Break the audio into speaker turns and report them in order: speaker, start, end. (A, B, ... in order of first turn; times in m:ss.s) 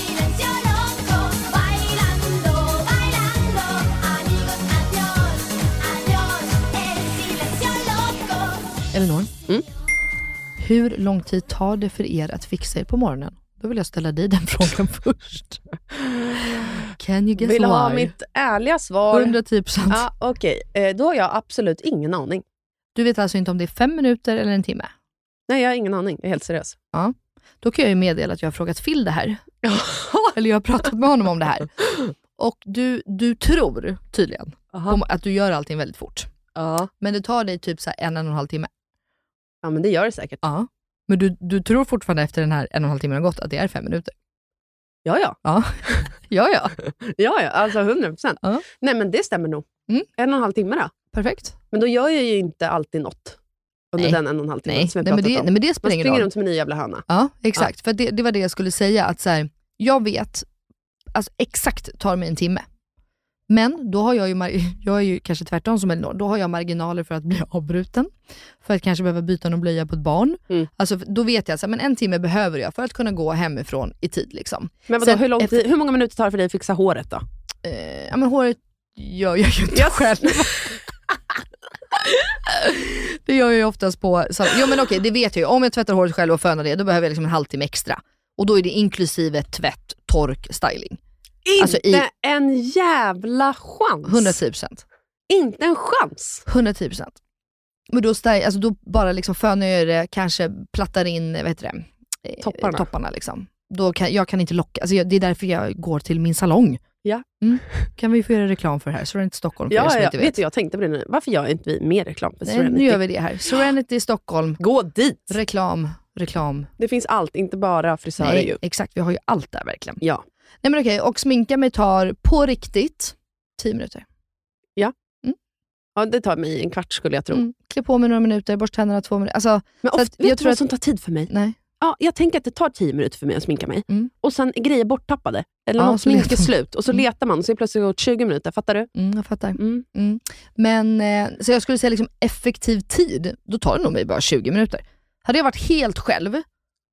0:08.9-0:09.3 A
0:10.6-0:15.6 A
0:16.8-0:18.2 A
0:17.4-0:19.4 B
0:19.1-0:20.1 A
0:19.9-0:22.4 B
0:23.0-0:24.9 A
0:25.5-0:26.8 B
0:26.9-0:29.6 A
0:29.7-0:30.2 B
0:30.2-0:36.3 A
0:34.7-0:35.0 B
0:36.6-0:36.9 B
0:37.0-0:38.7 A
0:39.6-0:40.4 B
0:40.4-0:44.1 A
0:45.0-0:46.1 B
0:45.4-0:46.8 A
0:47.0-0:50.9 B
0:51.1-0:51.6 A
0:51.7-0:53.4 B
0:53.9-0:57.0 B
0:54.0-0:56.3 A
0:57.1-1:00.5 A
1:01.1-1:02.7 A
1:03.5-1:15.6 A
1:14.9-1:17.2 B
1:17.6-1:20.9 A
1:19.7-1:20.5 B
1:21.9-1:31.0 A
1:31.4-1:34.4 B
1:31.6-1:32.1 A
1:34.1-1:34.8 A
1:35.3-1:36.4 B
1:36.5-1:37.2 A
1:37.9-1:46.8 A
1:42.4-1:42.9 B
1:47.0-1:47.9 B
1:47.4-1:50.4 A
1:49.7-1:53.0 B
1:52.4-1:54.6 A
1:54.6-1:55.4 B
1:55.3-1:56.7 A
1:56.8-1:58.6 B
1:58.2-2:00.0 A
2:00.6-2:04.0 A
2:06.0-2:07.4 B
2:07.3-2:10.6 A
2:09.8-2:18.9 B
2:11.3-2:11.6 A
2:15.8-2:17.0 A
2:19.0-2:26.4 A
2:19.6-2:19.8 B